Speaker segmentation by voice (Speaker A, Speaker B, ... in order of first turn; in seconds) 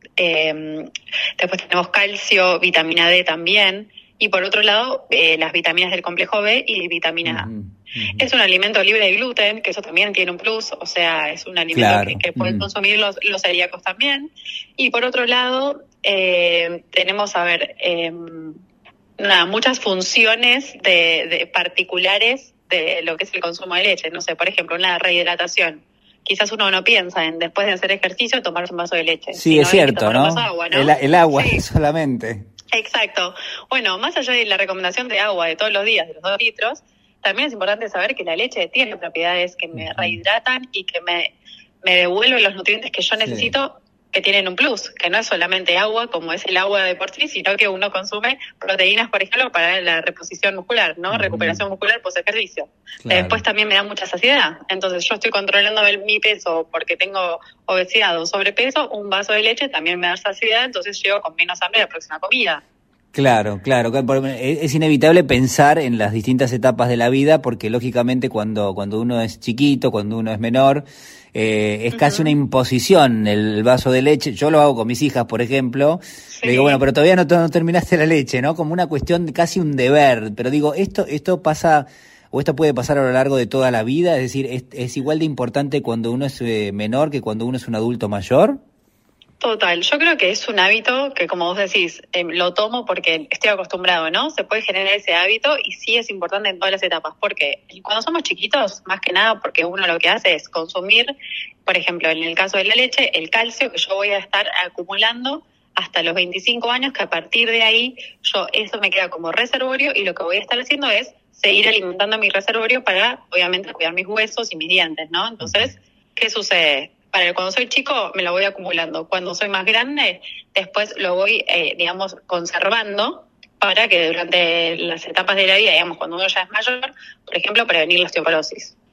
Speaker A: 0.2-7.5, 8.2-18.6, 19.2-31.6, 32.7-41.3, 41.8-62.6, 71.9-72.3, 76.3-76.8, 89.4-101.1, 101.7-128.7
Speaker B: 7.2-8.3, 11.7-12.7, 29.3-32.4, 39.7-40.2, 43.2-43.5, 51.1-51.6, 53.0-53.4, 63.1-88.6, 115.4-115.7